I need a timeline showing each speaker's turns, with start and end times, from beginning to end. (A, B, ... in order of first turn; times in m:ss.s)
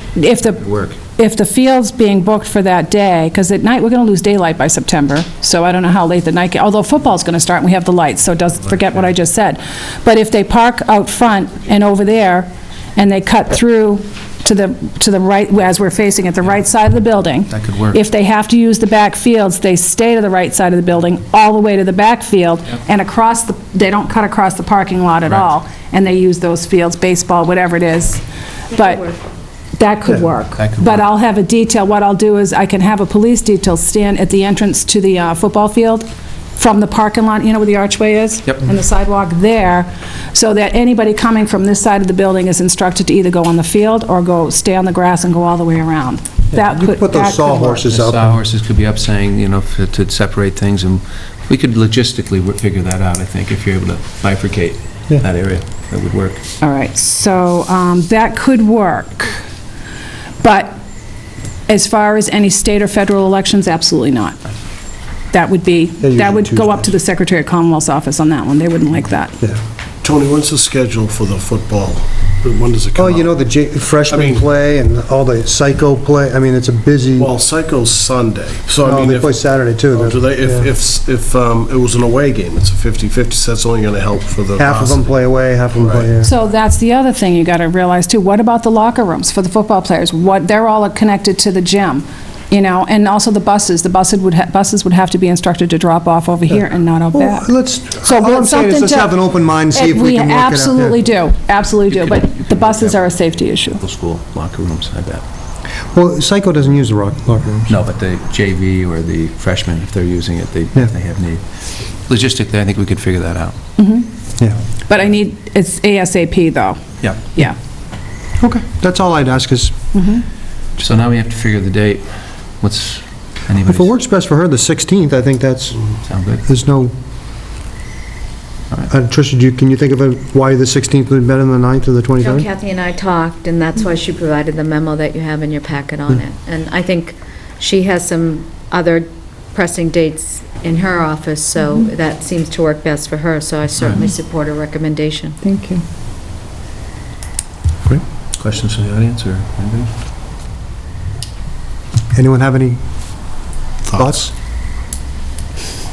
0:00.2-0:29.1 A
0:00.6-0:01.0 B
0:17.5-0:18.0 B
0:29.8-0:47.9 A
0:30.6-0:31.0 B
0:46.5-0:48.4 C
0:47.9-0:56.4 B
0:56.6-0:59.4 A
1:00.4-1:00.8 A
1:01.7-1:04.4 A
1:05.3-1:09.4 A
1:06.0-1:06.9 C
1:10.0-1:13.4 D
1:13.0-1:17.3 C
1:14.1-1:14.4 D
1:17.2-1:19.4 D
1:18.8-1:20.7 C
1:19.9-1:25.2 D
1:24.6-1:26.3 C
1:25.7-1:26.1 D
1:26.2-1:37.5 A
1:36.5-1:41.0 C
1:38.0-1:39.2 A
1:39.7-1:43.8 A
1:41.9-1:43.0 B
1:43.8-1:45.2 B
1:45.9-1:47.8 C
1:47.7-1:51.4 B
1:52.0-1:53.6 B
1:53.8-1:54.1 A
1:54.9-1:56.8 A
1:58.4-1:59.8 C
1:59.9-2:00.2 A
2:00.8-2:03.9 B
2:03.6-2:05.8 C
2:06.0-2:06.4 B
2:06.4-2:06.9 C
2:08.9-2:12.5 C
2:12.2-2:25.4 E
2:23.8-2:24.0 B
2:25.4-2:25.8 A
2:28.4-2:29.9 B
2:32.1-2:32.8 C
2:33.8-2:34.3 D
2:34.0-2:34.3 C